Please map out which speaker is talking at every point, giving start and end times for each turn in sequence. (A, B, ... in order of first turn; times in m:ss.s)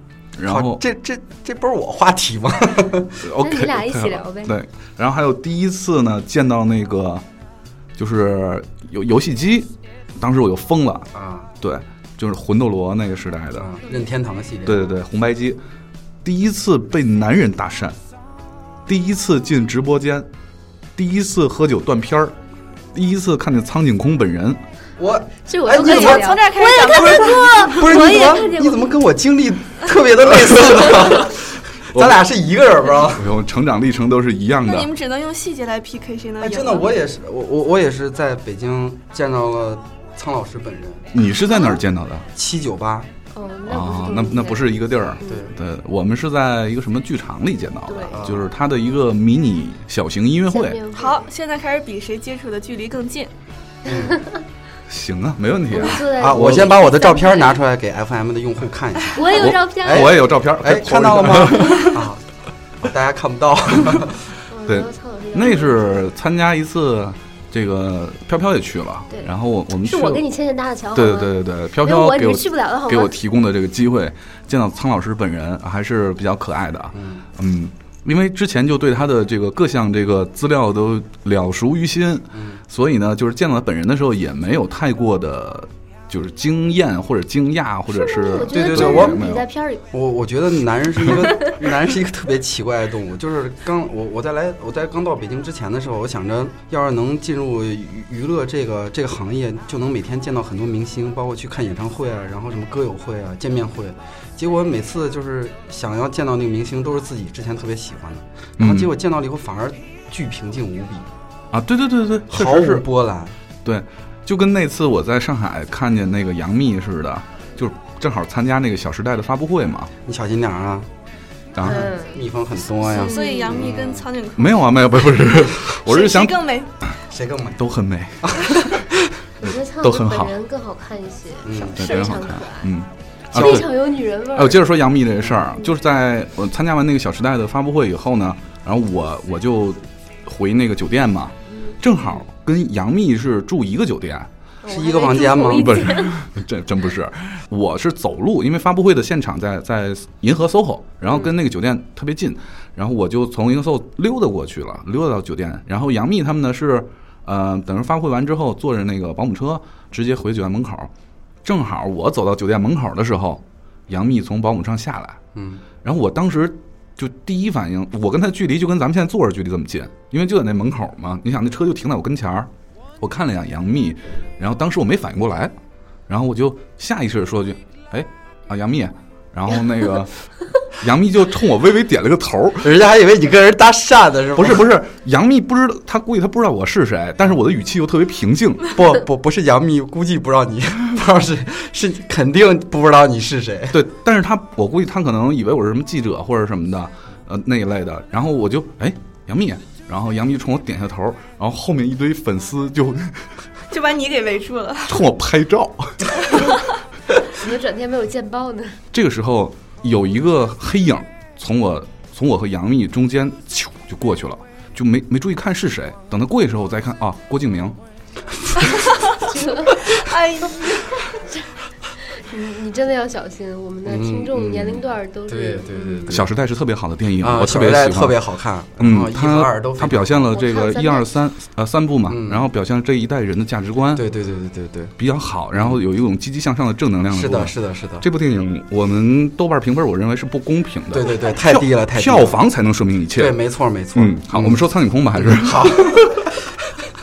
0:00.4-0:00.8 A
0:00.4-0:03.2 B
0:03.2-0:07.2 A
0:03.4-0:04.6 C
0:08.0-0:11.1 A
0:11.1-0:11.5 B
0:11.6-0:13.7 A
0:13.6-0:14.8 B
0:14.6-0:15.6 A
0:16.2-0:18.0 A
0:18.9-0:20.3 A
0:21.0-0:22.4 A
0:22.9-0:24.6 A
0:25.0-0:33.3 B
0:25.4-0:29.0 C
0:25.7-0:28.0 D
0:31.9-0:32.2 A
0:33.1-0:34.9 A
0:34.6-0:37.0 D
0:36.4-0:41.1 B
0:41.1-0:42.3 A
0:42.3-0:43.1 B
0:43.3-0:45.5 C
0:43.7-0:50.8 A
0:45.2-0:45.6 B
0:47.9-0:48.2 C
0:48.1-0:48.5 B
0:50.5-0:51.2 C
0:50.9-0:53.3 D
0:53.9-0:54.2 B
0:53.9-0:54.4 C
0:54.9-0:56.8 A
0:55.7-0:57.6 C
0:56.1-1:02.2 B
0:59.1-1:00.1 C
0:59.3-1:02.0 A
1:02.8-1:04.2 B
1:04.5-1:05.9 C
1:04.7-1:10.2 A
1:09.1-1:13.2 C
1:10.9-1:29.5 A
1:16.9-1:17.2 B
1:22.3-1:22.6 B
1:27.9-1:29.9 C
1:28.5-1:29.3 B
1:29.9-1:51.1 B
1:48.6-1:48.9 A
1:51.5-1:52.9 A
1:52.3-1:53.4 B
1:53.6-1:59.9 A
2:00.0-2:00.9 B
2:01.6-2:01.9 A
2:01.6-2:04.1 B
2:01.6-2:02.2 C
2:02.8-2:03.6 C
2:02.9-2:06.7 D
2:04.4-2:06.9 A
2:07.1-2:07.6 B
2:07.6-2:10.3 A
2:08.2-2:08.8 B
2:09.4-2:12.7 C
2:11.4-2:11.9 B
2:11.8-2:13.7 A
2:13.3-2:14.7 C
2:13.4-2:13.7 B
2:14.3-2:24.3 A
2:15.2-2:15.5 B
2:24.6-2:26.2 C
2:24.7-2:25.9 B
2:25.2-2:40.9 A
2:41.4-2:45.2 A
2:45.4-2:45.6 B
2:45.8-2:55.5 A
2:56.1-3:02.8 A
3:02.6-3:04.7 B
3:04.4-3:08.8 A
3:08.7-3:13.8 B
3:13.7-3:23.3 A
3:23.7-3:25.0 D
3:24.9-3:26.2 A
3:27.3-3:28.8 C
3:28.9-3:37.8 A
3:38.7-3:38.9 D
3:39.3-3:39.9 C
3:39.8-3:41.0 D
3:42.1-3:46.2 C
3:43.8-3:46.3 B
3:46.1-3:48.2 A
3:47.2-3:50.2 B
3:48.8-3:54.0 A
3:50.3-3:51.1 C
3:52.1-3:52.5 B
3:53.9-3:54.9 B
3:55.0-4:03.4 A
3:55.5-3:55.8 B
3:57.1-3:58.1 B
4:00.9-4:02.4 B
4:03.2-4:04.6 B
4:03.9-4:06.2 A
4:05.2-4:06.4 B